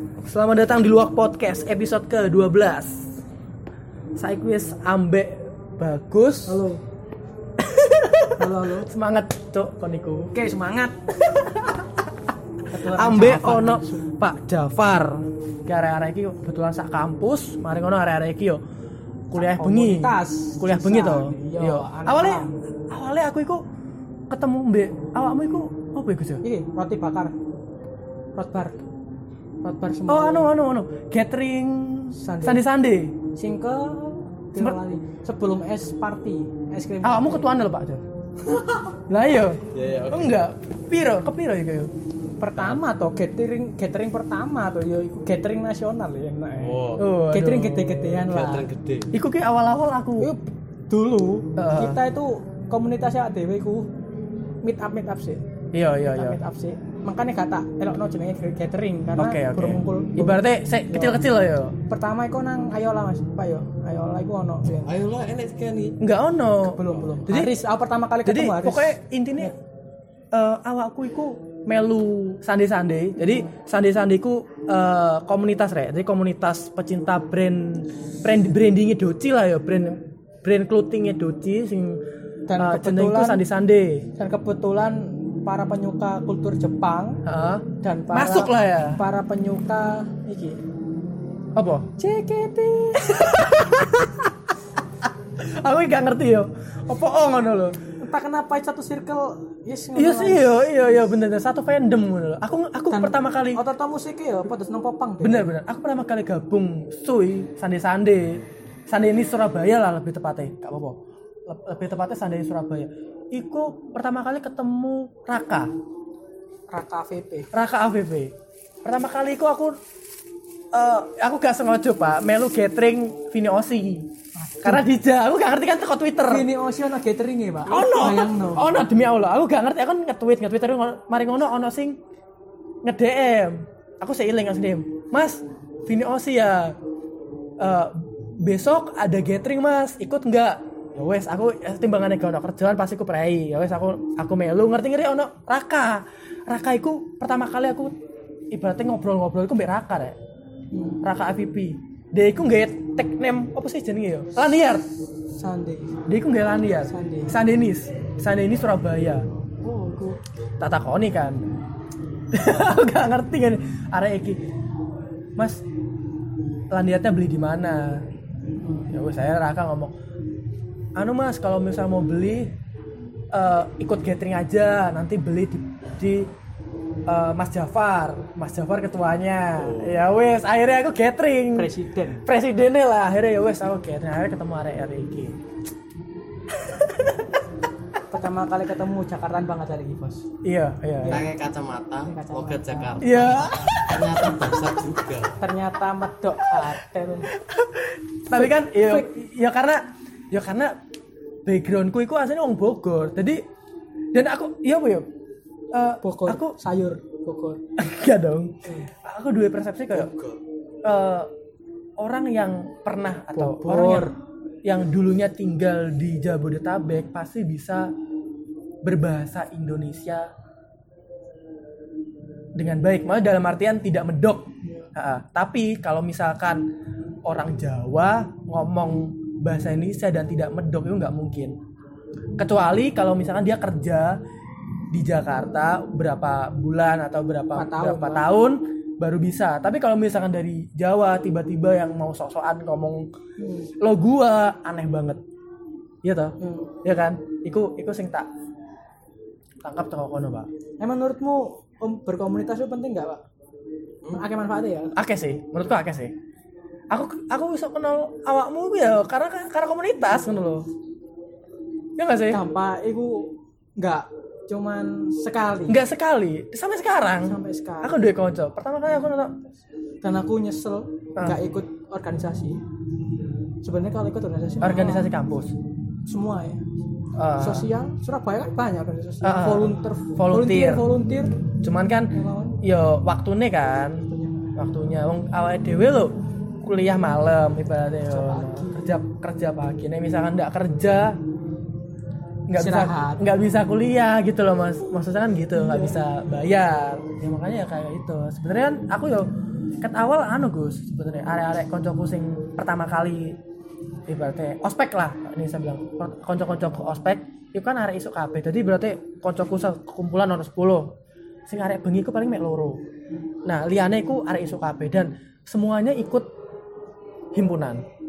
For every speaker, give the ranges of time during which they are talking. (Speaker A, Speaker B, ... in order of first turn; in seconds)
Speaker A: 0.2-3.1, 4.2-6.6, 7.6-10.3, 11.2-11.9, 12.8-18.6, 19.3-23.6, 24.3-26.4, 30.1-33.2, 34.5-34.8, 37.0-38.0, 39.1-41.9, 47.0-48.2, 49.1-50.3, 51.5-52.0, 55.7-56.4, 59.2-61.8, 66.0-67.6, 68.2-69.5, 70.3-82.0, 82.6-84.1, 87.2-89.0, 91.5-91.9, 93.0-94.3, 95.4-97.8, 99.9-103.6, 105.2-115.7, 117.5-118.3, 118.8-119.8, 120.7-124.1, 124.6-126.5, 127.7-132.0, 132.8-136.8, 137.6-147.9, 148.5-150.2, 151.0-154.9, 156.1-159.3, 160.6-161.4, 162.3-164.4, 166.7-168.0, 168.9-169.9, 170.9-172.5, 173.3-176.3, 177.1-181.7, 182.2-185.3, 186.5-187.3, 190.4-191.2, 193.0-194.3, 197.4-200.8, 201.4-203.4, 204.1-205.1, 205.7-206.5, 207.8-210.1, 210.8-211.3, 212.0-217.9, 218.8-220.3, 222.6-226.6, 227.2-231.6, 232.4-234.2, 234.9-243.1, 243.8-245.2, 246.0-248.3, 249.6-250.5, 254.9-256.1, 256.9-260.7, 262.0-262.4, 265.7-269.4, 274.6-275.5, 277.1-277.7, 279.2-280.9, 281.6-291.2, 292.5-299.3, 299.8-303.4, 304.1-310.9, 311.5-312.8, 313.4-316.3, 317.3-317.8
Speaker B: 6.5-6.8, 8.4-8.9, 10.3-11.0, 12.7-14.1, 19.4-22.5, 26.4-27.4, 28.4-28.8, 29.6-30.5, 32.2-32.6, 33.3-37.5, 38.5-38.9, 42.4-48.7, 50.2-53.9, 54.6-55.4, 56.1-61.2, 61.9-64.9, 66.7-69.5, 82.5-83.4, 84.1-87.2, 87.8-90.6, 92.0-93.2, 98.0-100.6, 102.9-105.5, 116.7-117.5, 124.3-124.8, 126.3-128.7, 150.7-151.0, 155.3-155.9, 156.9-157.3, 159.6-160.2, 168.6-168.9, 181.5-182.2, 188.1-190.3, 191.0-191.3, 192.1-193.1, 195.4-197.4, 198.3-199.1, 206.0-207.6, 213.3-214.1, 224.6-224.9, 237.5-238.3, 243.4-243.7, 246.4-246.7, 250.8-253.2, 254.1-254.9, 262.3-265.8, 267.2-268.1, 270.0-272.6, 273.6-275.1, 276.1-276.6, 277.4-281.4, 282.1-282.6, 284.1-284.5, 288.1-288.8, 292.5-293.2
Speaker C: 39.7-40.4, 46.6-47.1, 48.3-49.1, 64.7-66.0, 179.5-180.0, 191.0-195.4, 209.9-210.4